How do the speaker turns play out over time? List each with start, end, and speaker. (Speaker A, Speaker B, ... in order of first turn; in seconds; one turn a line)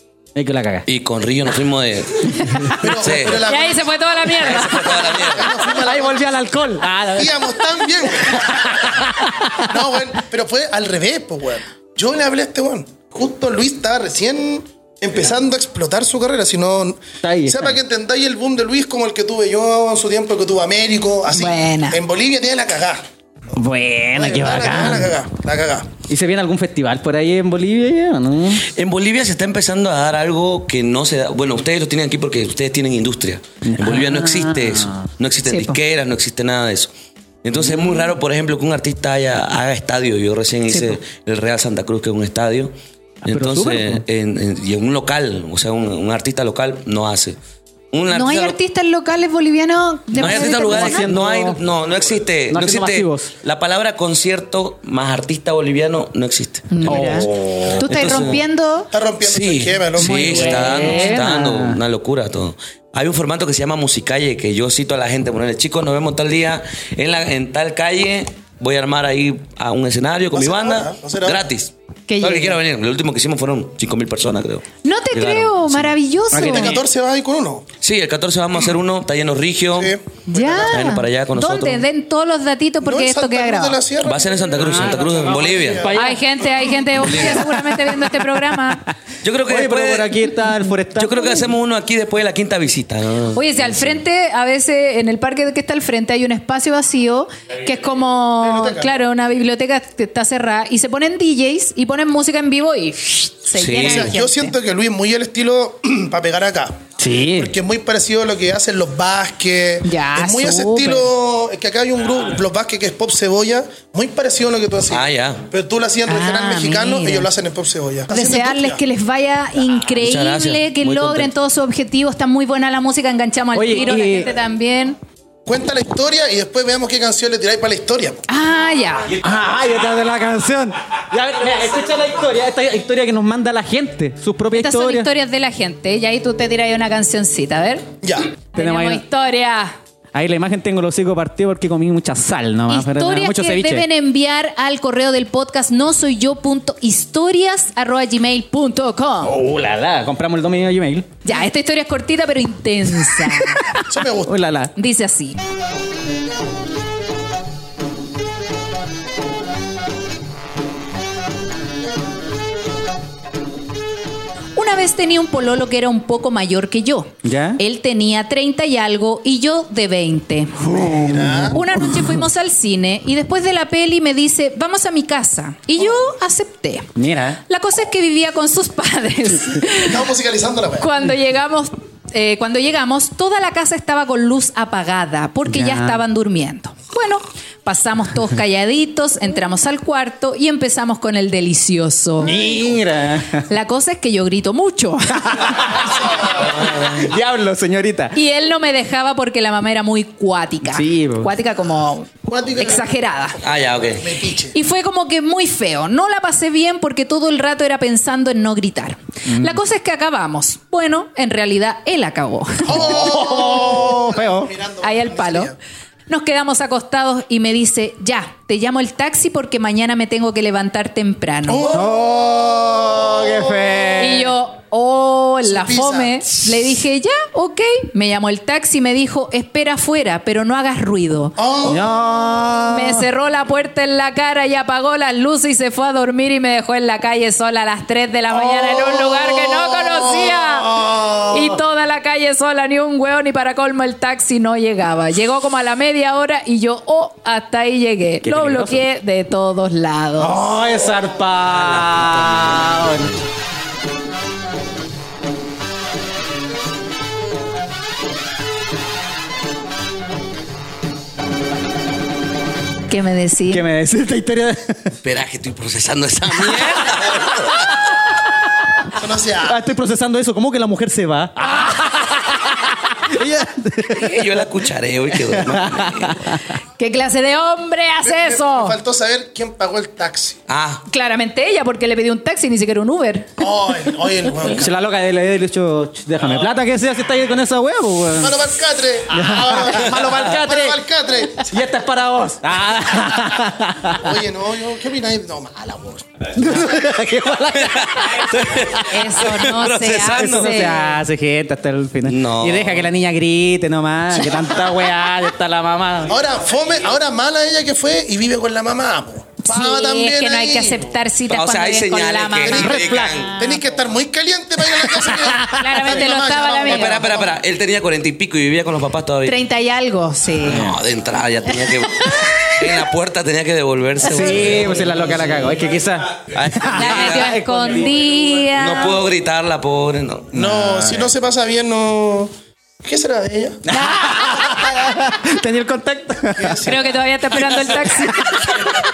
Speaker A: 0.4-0.9
Speaker B: 0.9-3.5
Speaker C: 2.7-4.0
Speaker D: 3.2-5.1
Speaker B: 4.3-5.7
Speaker C: 4.6-6.4
Speaker A: 5.8-7.7
Speaker C: 7.2-23.0
Speaker A: 8.3-9.7
Speaker A: 17.2-17.8
Speaker D: 21.3-22.0
Speaker A: 23.5-25.1
Speaker C: 24.2-25.9
Speaker A: 26.1-28.7
Speaker B: 28.7-36.9
Speaker A: 33.6-35.1
Speaker D: 35.5-35.8
Speaker B: 37.4-42.7
Speaker D: 40.7-41.0
Speaker A: 43.2-44.0
Speaker B: 43.3-47.4
Speaker B: 47.9-48.6
Speaker D: 48.1-51.1
Speaker B: 50.1-58.4
Speaker A: 50.2-51.6
Speaker A: 52.5-53.3
Speaker D: 56.7-58.9
Speaker A: 56.9-57.7
Speaker C: 58.9-60.8
Speaker B: 59.2-75.9
Speaker A: 60.0-61.8
Speaker D: 60.3-61.2
Speaker C: 70.3-71.4
Speaker D: 72.1-72.6
Speaker D: 74.8-76.8
Speaker A: 76.3-76.8
Speaker C: 76.4-77.7
Speaker B: 77.8-79.9
Speaker C: 79.7-80.8
Speaker D: 80.3-83.8
Speaker B: 80.6-81.8
Speaker C: 82.8-87.4
Speaker B: 84.0-85.8
Speaker A: 84.6-86.3
Speaker D: 85.9-88.8
Speaker B: 87.0-87.5
Speaker B: 89.2-90.2
Speaker A: 89.5-91.4
Speaker B: 91.0-94.0
Speaker D: 93.3-104.6
Speaker C: 98.4-99.0
Speaker B: 103.5-104.2
Speaker C: 103.8-106.8
Speaker A: 107.0-107.5
Speaker C: 107.3-118.8
Speaker D: 109.8-111.1
Speaker B: 114.9-115.5
Speaker D: 116.1-117.3
Speaker D: 118.1-125.0
Speaker B: 120.0-121.3
Speaker A: 123.5-124.3
Speaker C: 125.5-128.2
Speaker D: 128.3-129.1
Speaker A: 129.2-135.1
Speaker D: 134.5-137.9
Speaker C: 138.0-138.3
Speaker D: 138.5-139.8
Speaker A: 138.6-139.0
Speaker A: 140.1-143.9
Speaker D: 142.7-149.3
Speaker A: 149.2-151.1
Speaker D: 151.2-153.7
Speaker A: 153.1-153.6
Speaker C: 153.9-154.3
Speaker A: 154.2-154.7
Speaker D: 154.8-155.4
Speaker D: 164.6-170.7
Speaker A: 167.2-167.6
Speaker A: 170.6-172.2
Speaker C: 170.7-171.6
Speaker D: 171.5-176.9
Speaker A: 176.9-177.4
Speaker D: 177.5-180.1
Speaker C: 179.7-180.9
Speaker D: 180.8-192.5
Speaker A: 185.5-186.0
Speaker A: 192.2-193.5
Speaker D: 193.5-195.8
Speaker A: 195.2-196.0
Speaker B: 196.2-197.1
Speaker A: 196.7-198.2
Speaker D: 198.1-203.4
Speaker A: 200.6-201.3
Speaker C: 202.2-202.9
Speaker B: 203.4-204.1
Speaker C: 203.9-204.6
Speaker D: 204.5-213.4
Speaker A: 209.3-209.6
Speaker C: 212.7-215.6
Speaker A: 212.8-214.5
Speaker D: 214.8-215.5
Speaker D: 216.1-221.7
Speaker C: 221.5-223.7
Speaker A: 221.7-224.3
Speaker D: 224.0-231.4
Speaker C: 225.4-226.5
Speaker C: 231.4-231.9
Speaker A: 231.6-233.1
Speaker D: 232.7-250.4
Speaker C: 238.3-241.6
Speaker A: 248.2-248.8
Speaker A: 250.2-253.1
Speaker B: 251.6-252.8
Speaker D: 262.9-263.6
Speaker A: 263.5-265.0
Speaker B: 265.0-267.7
Speaker C: 268.9-269.6
Speaker A: 269.4-274.3
Speaker B: 273.9-276.4
Speaker A: 275.2-276.4
Speaker D: 276.8-278.8
Speaker C: 278.0-280.4
Speaker B: 280.5-280.9
Speaker D: 280.9-283.4
Speaker C: 283.4-284.7
Speaker A: 284.5-288.4
Speaker C: 288.2-291.6
Speaker A: 289.1-290.8
Speaker A: 291.4-294.1
Speaker C: 293.9-296.7
Speaker A: 296.3-298.7
Speaker B: 297.6-300.8
Speaker D: 298.8-301.0
Speaker A: 300.1-306.2
Speaker B: 302.1-302.9
Speaker C: 304.1-304.8
Speaker C: 306.0-310.9
Speaker D: 309.4-312.8
Speaker B: 311.3-313.4
Speaker C: 312.4-317.4
Speaker A: 312.6-313.3
Speaker A: 315.1-315.9
Speaker D: 315.5-317.0
Speaker B: 316.6-319.4
Speaker D: 319.2-320.8
Speaker B: 320.4-325.6
Speaker D: 321.5-322.4
Speaker D: 324.0-324.5
Speaker A: 324.1-328.3
Speaker B: 326.3-327.4
Speaker D: 326.7-329.0
Speaker B: 328.5-330.3
Speaker C: 330.3-332.3
Speaker A: 330.3-331.1
Speaker C: 332.8-333.6
Speaker A: 333.7-336.6
Speaker D: 333.7-334.3
Speaker C: 336.4-337.1
Speaker D: 336.6-338.6
Speaker A: 337.7-338.7